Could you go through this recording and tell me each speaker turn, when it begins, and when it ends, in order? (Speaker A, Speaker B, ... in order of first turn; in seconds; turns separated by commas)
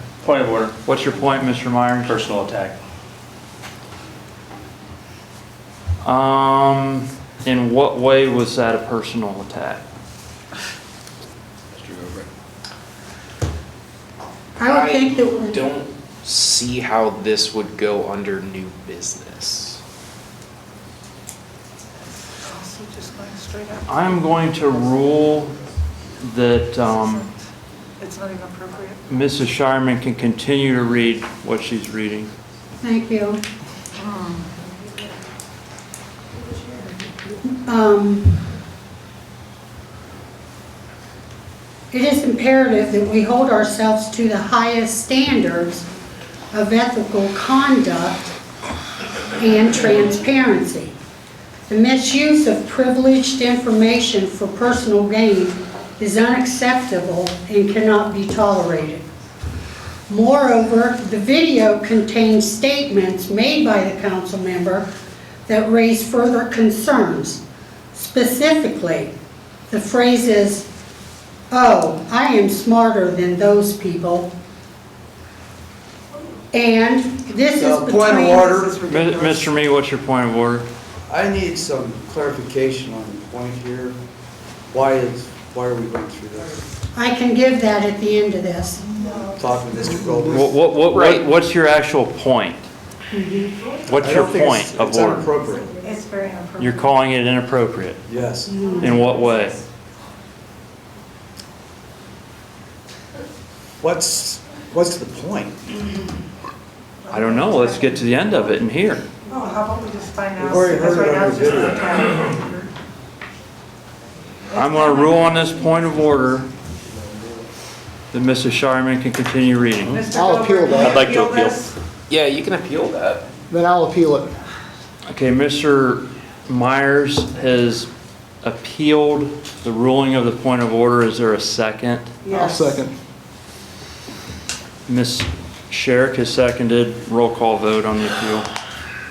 Speaker A: 0.2-0.7, Speaker B: 0.8-2.2, Speaker A: 2.1-2.8, Speaker B: 6.0-9.8, Speaker A: 11.8-12.3, Speaker C: 14.6-15.6, Speaker D: 14.7-19.8, Speaker E: 22.4-24.4, Speaker B: 23.9-25.6, Speaker B: 26.2-27.3, Speaker E: 28.0-29.0, Speaker B: 29.1-32.3, Speaker C: 32.8-33.4, Speaker E: 34.0-34.5, Speaker C: 37.6-38.4, Speaker C: 41.9-45.9, Speaker C: 46.5-48.3, Speaker C: 49.4-51.0, Speaker C: 51.7-59.0, Speaker C: 60.1-64.9, Speaker C: 65.5-67.4, Speaker C: 67.9-69.1, Speaker C: 69.7-70.7, Speaker C: 71.5-74.3, Speaker C: 76.5-78.6, Speaker F: 77.5-78.8, Speaker E: 78.5-79.5, Speaker B: 78.9-80.7, Speaker F: 81.1-84.0, Speaker F: 84.7-86.6, Speaker C: 86.9-88.8, Speaker E: 88.8-90.0, Speaker F: 89.4-90.6, Speaker B: 90.3-92.7, Speaker D: 90.9-91.2, Speaker C: 93.1-93.5, Speaker B: 93.9-95.3, Speaker F: 94.0-95.7, Speaker E: 95.5-96.9, Speaker B: 96.6-98.0, Speaker F: 98.1-98.6, Speaker C: 98.5-99.1, Speaker B: 98.8-99.6, Speaker F: 103.8-105.7, Speaker E: 107.1-108.2, Speaker B: 107.1-109.0, Speaker E: 109.3-112.7, Speaker F: 110.4-111.9, Speaker E: 114.5-115.8, Speaker B: 114.5-116.5, Speaker B: 118.1-120.1, Speaker E: 119.9-121.7, Speaker G: 120.1-121.1, Speaker A: 120.8-121.6, Speaker D: 122.1-123.3, Speaker G: 123.5-124.3, Speaker B: 125.1-127.9, Speaker B: 128.4-132.1, Speaker E: 132.2-132.8, Speaker G: 132.4-132.8, Speaker B: 134.9-138.5